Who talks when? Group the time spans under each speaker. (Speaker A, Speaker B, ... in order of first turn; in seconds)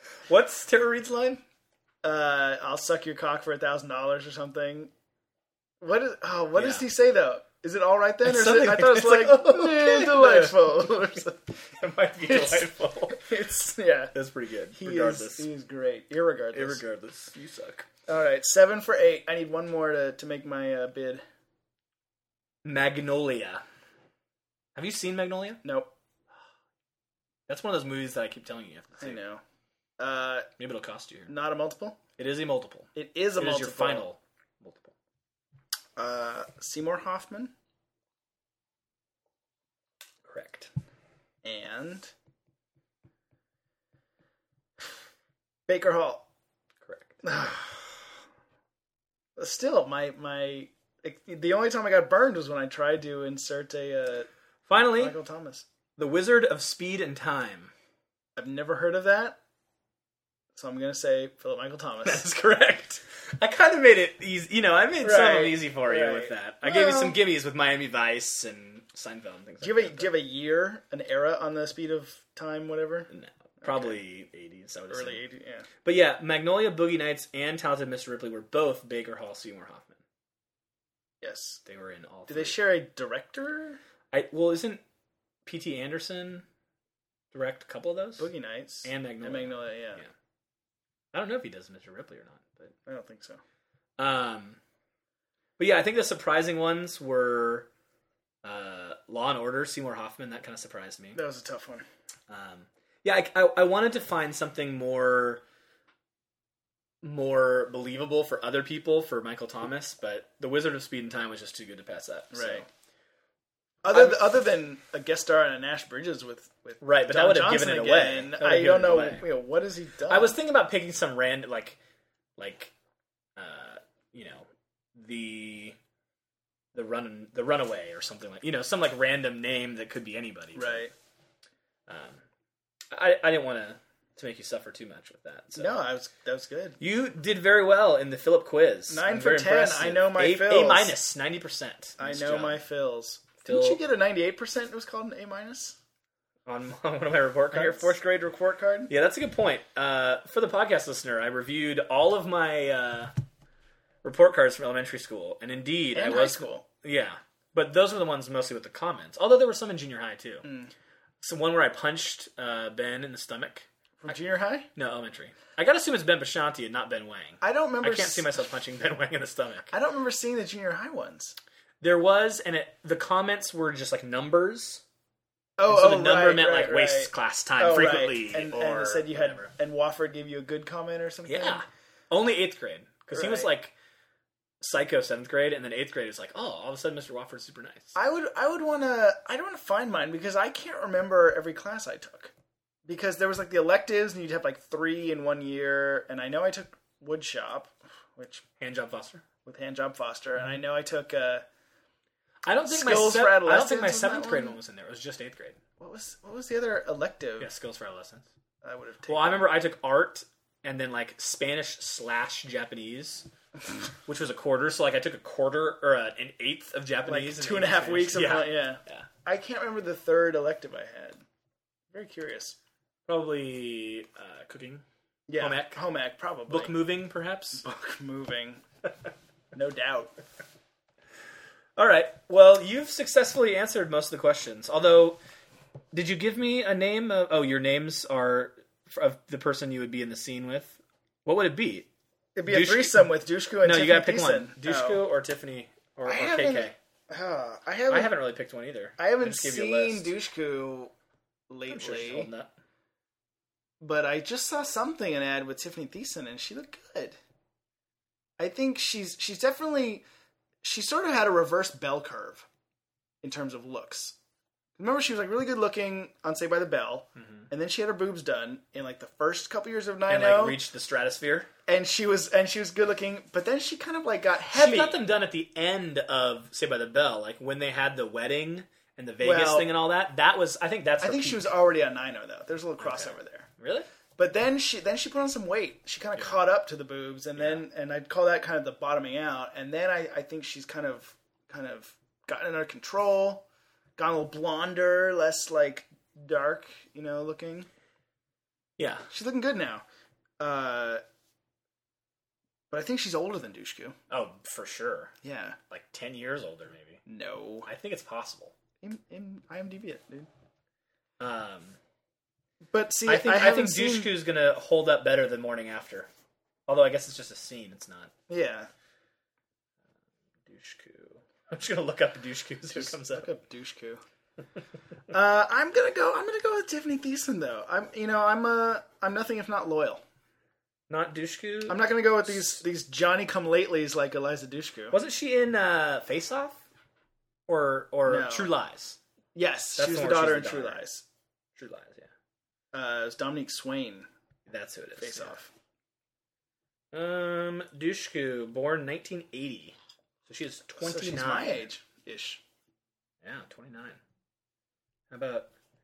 Speaker A: 0.3-1.4, 6.6-6.8, 8.2-10.9, 11.6-13.3, 14.1-15.5, 16.5-17.9, 22.6-23.6, 24.8-25.6, 27.5-29.2, 30.6-31.3, 32.2-34.9, 40.2-40.7, 46.9-47.5, 54.7-55.2, 56.0-57.7, 62.0-70.1, 73.1-75.2, 75.8-80.0, 81.7-82.6, 84.1-84.8, 85.5-86.5, 87.3-88.3, 88.8-90.1, 91.1-92.8, 94.0-94.6, 95.6-97.7, 98.4-101.2, 102.3-105.4, 107.0-112.7, 113.9-114.3, 116.8-119.3, 120.1-121.8, 122.4-122.7, 123.4-125.8, 126.7-130.9, 131.9-132.2, 132.9-135.8, 136.8-142.6, 143.4-143.8, 146.5-148.0, 148.9-153.1, 154.0-160.5, 161.2-164.1, 164.8-169.7, 171.8-174.8, 175.7-179.5, 181.3-183.7, 184.6-188.0, 198.6-199.2, 202.5-205.6, 207.4-208.3, 209.1-213.3, 214.1-219.1, 223.1-224.8, 225.4-225.8, 226.5-227.6, 231.8-235.2, 235.9-241.9, 242.5-243.1, 243.6-246.8, 247.9-250.1, 251.7-252.5, 267.2-267.5, 270.1-271.5, 274.5-281.6, 282.8-283.9, 287.4-287.6, 298.8-299.1, 304.1-305.1, 305.7-307.0, 307.7-308.5, 311.2-311.8, 313.1-316.1, 316.7-318.1, 320.4-323.3, 330.9-332.6, 334.9-336.6, 337.5-339.0, 339.8-340.8, 341.6-342.1, 344.5-345.4, 346.9-351.7, 353.2-354.0, 355.1-355.5
Speaker B: 2.0-4.9, 5.8-11.5, 12.3-14.1, 14.7-16.8, 18.1-21.2, 25.6-25.9, 29.0-29.4, 30.0-30.5, 31.3-32.0, 33.0-34.0, 36.0-37.5, 41.4-42.1, 45.7-46.3, 47.2-47.9, 49.4-55.7, 58.4-59.4, 60.5-62.2, 65.0-67.2, 69.6-73.1, 73.6-74.0, 74.9-75.7, 81.2-81.6, 82.3-83.8, 88.2-90.0, 92.9-93.4, 101.2-101.9, 112.3-112.7, 113.8-120.4, 130.6-130.9, 135.6-136.8, 138.9-141.0, 142.0-145.8, 147.5-148.9, 155.9-156.7, 160.4-160.7, 164.0-164.7, 167.4-168.3, 169.7-171.3, 175.6-181.6, 183.1-183.5, 187.9-192.3, 192.9-198.4, 199.4-201.4, 202.7-204.6, 205.8-207.5, 208.6-209.4, 217.1-221.2, 221.9-222.6, 225.3-226.8, 227.6-228.6, 229.5-230.1, 242.3-245.0, 246.1-248.1, 249.0-250.9, 251.5-252.3, 253.8-257.2, 258.4-260.1, 260.6-262.5, 263.2-264.2, 264.8-270.6, 271.7-275.0, 279.2-279.7, 281.0-283.5, 284.2-293.5, 294.0-297.7, 299.1-299.9, 300.4-301.0, 302.7-304.0, 305.2-305.6, 307.1-307.7, 308.8-310.3, 312.7-314.1, 318.3-318.7, 322.8-324.0, 325.1-330.0, 331.7-334.9, 338.1-338.5, 339.4-341.1, 342.7-344.1, 345.0-345.5, 350.8-352.4